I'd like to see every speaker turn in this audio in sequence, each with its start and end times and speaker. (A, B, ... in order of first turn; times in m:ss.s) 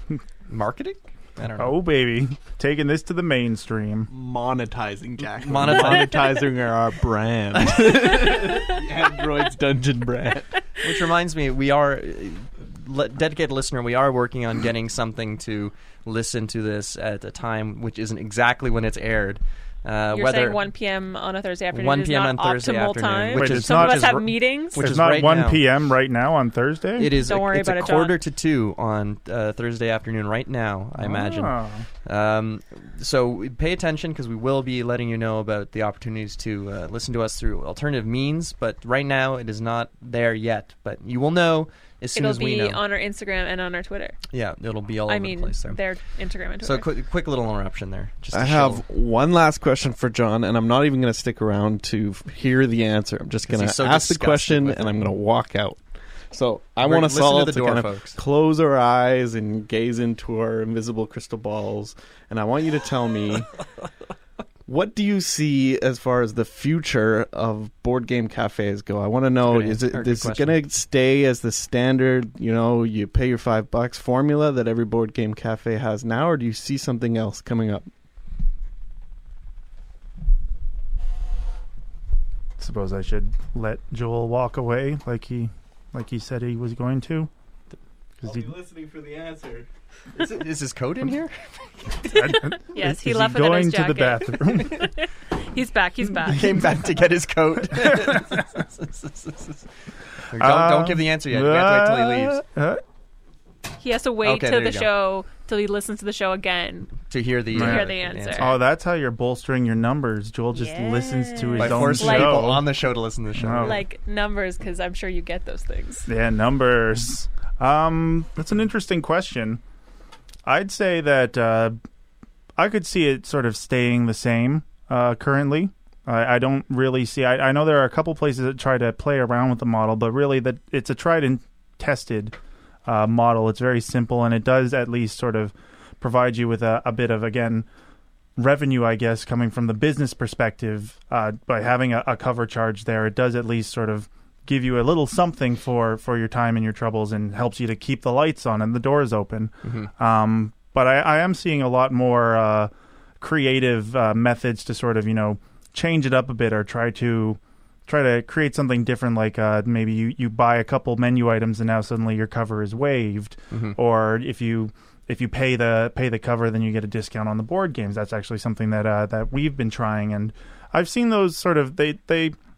0:00.4-0:01.8 A
0:01.6-0:04.1 B
0:04.1-0:10.6 C
0:05.4-0:06.4 A
0:07.6-0:07.8 A
0:10.8-0:20.6 A
0:20.1-0:24.8 D
0:21.7-0:25.6 A
0:23.3-0:27.1 B
0:27.0-0:42.8 A
0:27.1-0:28.2 D
0:31.0-0:31.8 B
0:42.2-0:44.2 D
0:44.3-0:45.8 A
0:45.1-0:46.8 D
0:46.6-0:48.8 A
0:48.3-1:03.5 C
0:53.4-0:55.0 A
0:56.8-0:58.2 A
1:04.7-1:17.9 C
1:09.4-1:10.6 A
1:22.6-1:27.3 B
1:28.2-1:28.5 B
1:28.2-1:29.7 C
1:30.1-1:32.3 A
1:32.1-1:34.9 B
1:32.2-1:36.7 D
1:36.2-1:39.6 A
1:37.7-1:38.4 B
1:40.3-1:42.4 A
1:40.3-1:42.8 B
1:43.8-1:48.5 D
1:44.2-1:44.9 A
1:47.0-1:48.5 A
1:47.5-1:52.6 B
1:50.5-1:52.5 D
1:51.6-1:53.8 A
1:53.3-1:53.8 B
1:53.6-1:56.1 D
1:56.1-1:59.6 B
2:00.4-2:01.8 B
2:02.6-2:12.3 B
2:12.8-2:17.7 B
2:18.4-2:52.4 B
2:29.6-2:29.9 A
2:43.5-2:43.8 A